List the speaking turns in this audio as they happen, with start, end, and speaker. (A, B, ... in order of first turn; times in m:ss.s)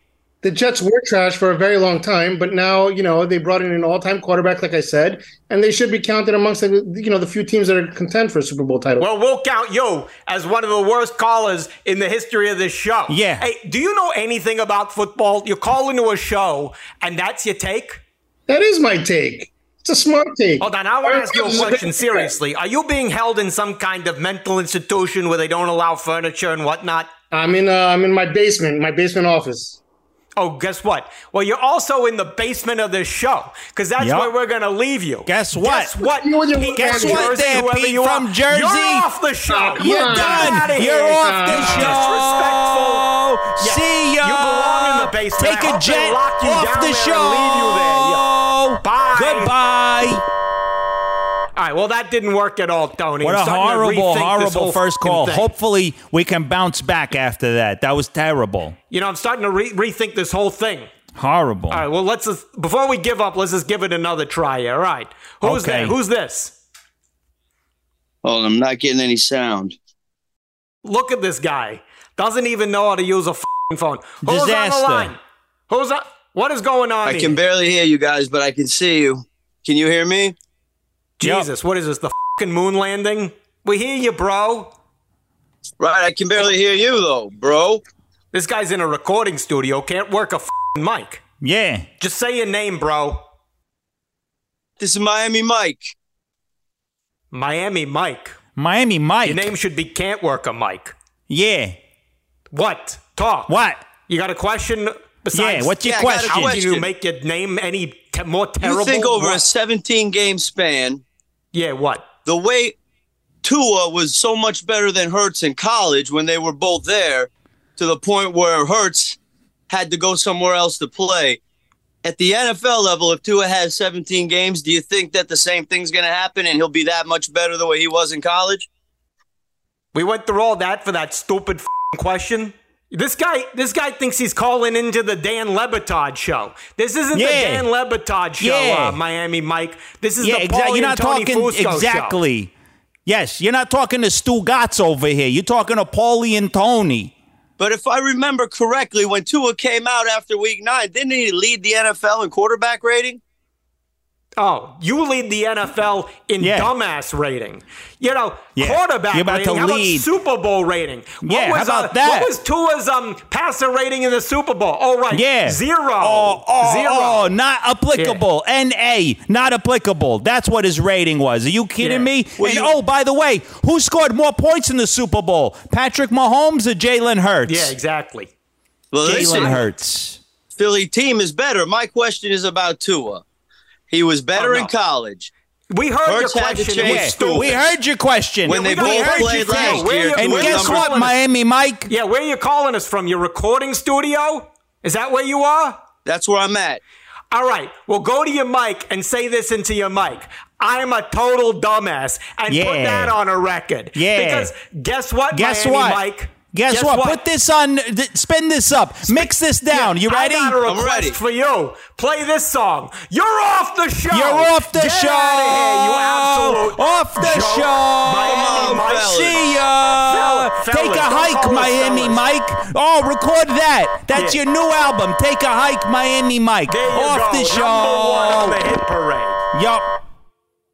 0:00.4-0:09.1 A
0:09.0-0:18.0 B
0:13.1-0:13.4 C
0:18.5-0:22.3 A
0:20.6-0:27.1 B
0:27.3-0:29.8 A
0:30.4-0:48.3 B
0:34.0-0:34.3 C
0:35.3-0:36.0 C
0:36.2-0:37.4 A
0:36.8-0:39.1 C
0:39.5-0:42.0 A
0:39.8-0:50.2 C
0:48.8-0:49.5 B
0:51.6-0:55.5 B
0:53.2-0:58.8 C
0:58.9-1:00.9 B
1:01.2-1:01.8 C
1:01.7-1:06.6 B
1:05.4-1:06.0 C
1:08.2-1:09.8 D
1:10.8-1:17.4 B
1:14.2-1:15.1 C
1:17.0-1:20.4 D
1:21.2-1:24.7 B
1:25.8-1:27.8 D
1:28.3-1:31.2 B
1:31.4-1:31.9 C
1:32.0-1:33.2 B
1:34.8-1:35.9 D
1:37.3-1:38.4 B
1:38.6-1:39.5 C
1:39.2-1:41.0 B
1:41.3-1:41.8 C
1:42.5-1:43.5 B
1:43.5-1:43.8 C
1:44.1-1:49.4 B
1:45.3-1:46.6 C
1:45.8-1:46.9 D
1:48.6-1:51.0 D
1:51.5-1:52.1 B
1:52.3-1:52.8 D
1:53.4-1:59.2 D
1:59.7-2:01.4 D
2:02.0-2:08.7 D
2:09.9-2:22.2 B
2:17.1-2:17.7 C
2:18.4-2:19.0 C
2:20.2-2:22.5 C
2:23.1-2:27.1 C
2:27.6-2:33.2 D
2:34.4-2:47.3 B
2:36.4-2:36.7 C
2:38.6-2:40.1 C
2:41.2-2:42.3 C
2:45.1-2:57.7 C
2:48.0-2:48.2 B
2:51.8-2:52.6 B
2:52.4-2:52.7 D
2:57.5-2:58.3 B
2:58.9-2:59.7 D
2:59.0-3:00.2 C
2:59.1-2:59.6 B
3:00.5-3:03.2 D
3:03.9-3:05.3 D
3:04.4-3:04.7 B
3:05.7-3:07.7 B
3:06.0-3:07.6 D
3:06.8-3:11.9 C
3:08.5-3:10.9 D
3:08.5-3:11.2 B
3:11.9-3:15.8 B
3:16.0-3:16.8 D
3:17.3-3:27.2 B
3:22.5-3:23.2 C
3:24.0-3:24.5 C
3:25.3-3:30.6 C
3:29.1-3:39.3 B
3:30.6-3:31.2 D
3:34.1-3:48.7 C
3:38.2-3:39.6 D
3:40.1-3:42.2 B
3:44.1-3:44.4 B
3:46.7-3:49.4 B
3:49.5-3:49.8 C